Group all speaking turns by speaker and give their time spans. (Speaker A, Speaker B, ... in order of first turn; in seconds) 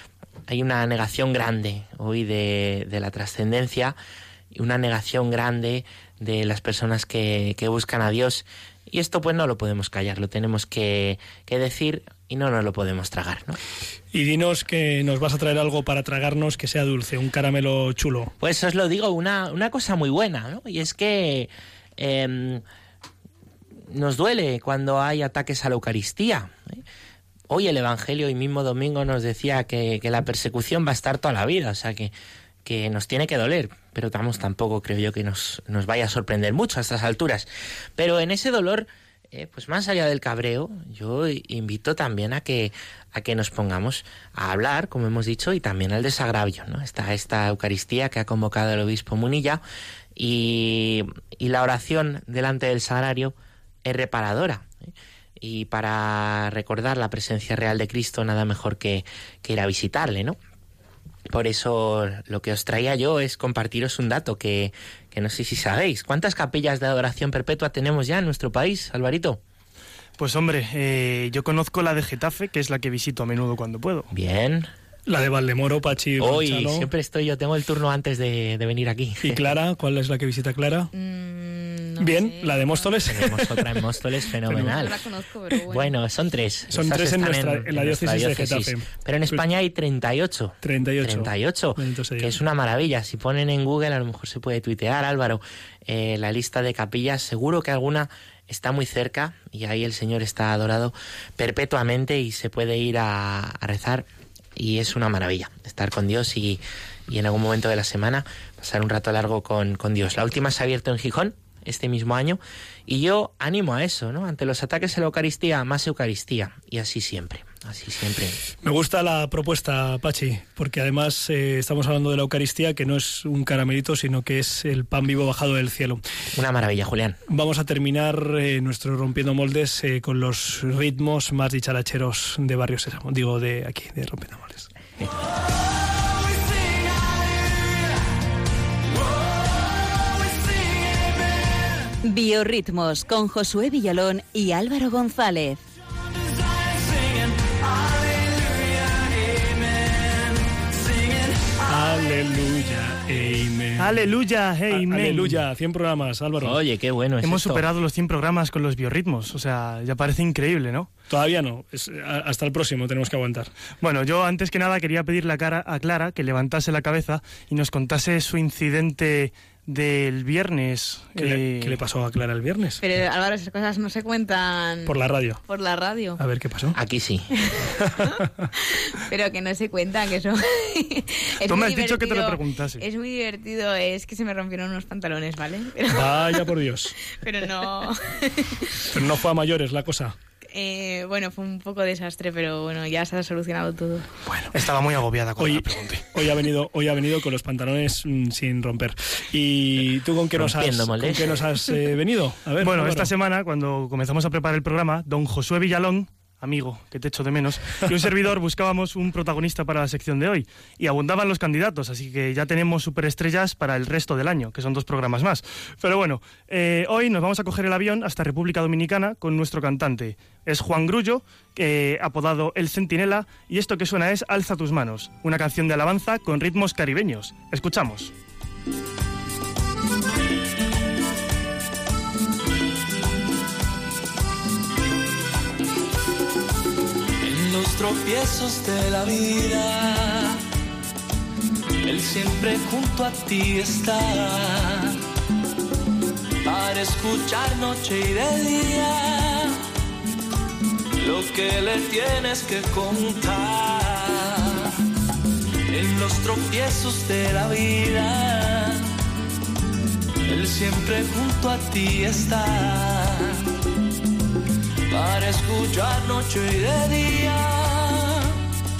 Speaker A: 0.5-4.0, 4.5-13.6, 18.4-22.6, 23.9-26.8, 27.5-32.1, 32.6-49.6, 50.2-54.7, 55.4-60.4, 61.3-69.4, 74.1-74.7, 76.2-79.5, 83.1-85.0, 85.6-118.4, 126.3-127.2, 156.4-157.7, 176.8-177.3, 200.4-201.4
Speaker B: 14.1-18.3, 75.1-76.9, 79.2-80.9, 82.0-83.6, 86.7-89.4, 90.6-92.4, 118.6-126.0, 127.3-134.7, 151.7-154.1, 154.7-156.6, 161.1-163.5, 171.2-172.8, 174.9-175.4, 176.2-176.8, 185.9-187.0, 188.9-190.1, 195.4-203.1
Speaker C: 70.2-74.1, 153.8-155.4, 157.2-160.9, 163.8-171.8, 181.5-182.9, 194.5-196.1, 202.6-228.1
Speaker D: 80.9-83.0, 84.6-85.9, 172.8-174.9, 175.5-176.2, 177.5-177.8, 178.6-186.5, 187.2-188.9, 190.5-194.2
Speaker E: 142.0-145.6
Speaker F: 146.9-151.6, 237.2-240.4, 241.8-245.0, 246.4-249.6, 251.0-254.7, 255.7-258.9, 260.3-263.4, 264.9-268.4